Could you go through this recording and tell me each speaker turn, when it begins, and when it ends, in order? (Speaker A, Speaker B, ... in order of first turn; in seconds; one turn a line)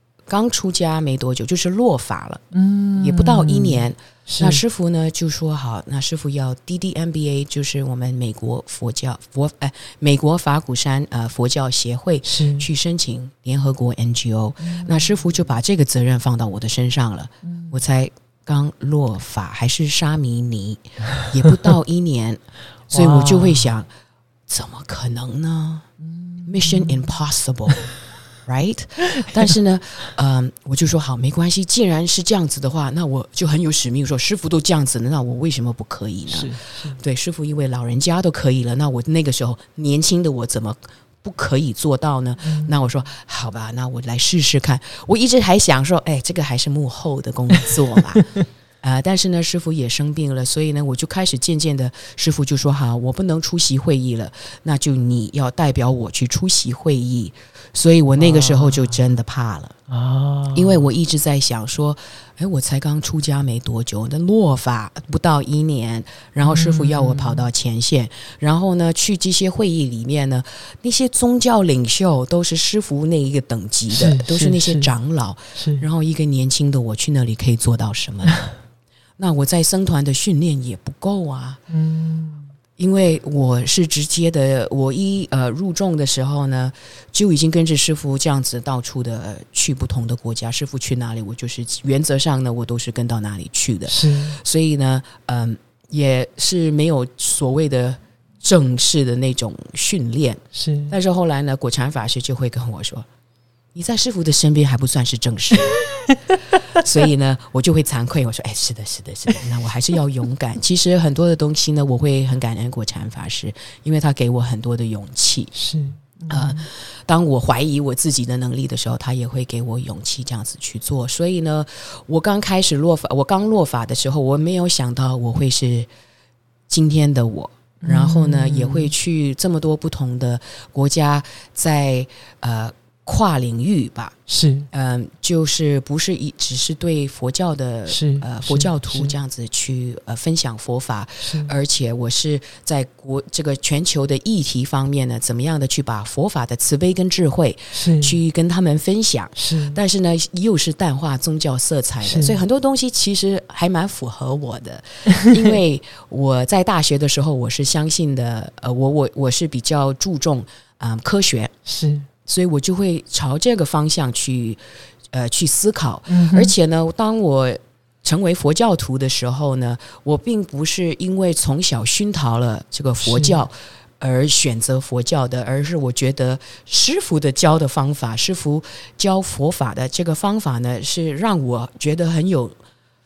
Speaker A: 0.3-2.4
Speaker B: 2.5-4.6
Speaker A: 3.0-23.9
Speaker B: 12.2-12.7
Speaker B: 14.6-15.2
Speaker B: 17.4-17.8
Speaker B: 22.9-23.7
Speaker A: 24.5-25.9
Speaker B: 26.0-27.1
Speaker A: 26.4-27.9
Speaker A: 28.4-59.8
Speaker B: 29.2-29.5
Speaker B: 36.3-37.0
Speaker B: 42.4-42.7
Speaker B: 58.1-59.0
Speaker B: 59.9-60.9
Speaker A: 60.5-78.5
Speaker B: 66.4-67.5
Speaker B: 73.9-74.9
Speaker B: 75.5-75.8
Speaker A: 79.2-81.6
Speaker B: 81.7-82.5
Speaker A: 82.8-103.1
Speaker B: 93.9-94.4
Speaker B: 100.5-100.9
Speaker A: 103.8-105.8
Speaker B: 106.1-106.8
Speaker A: 106.7-115.5
Speaker B: 115.5-116.7
Speaker A: 116.3-125.9
Speaker A: 126.7-134.2
Speaker B: 127.8-128.9
Speaker B: 134.3-134.7
Speaker A: 134.7-161.6
Speaker B: 137.9-139.1
Speaker B: 141.2-141.5
Speaker B: 147.7-148.2
Speaker B: 149.4-149.8
Speaker B: 152.0-152.4
Speaker B: 161.7-162.1
Speaker A: 162.3-164.6
Speaker A: 165.1-182.6
Speaker B: 166.1-166.5
Speaker B: 173.0-173.4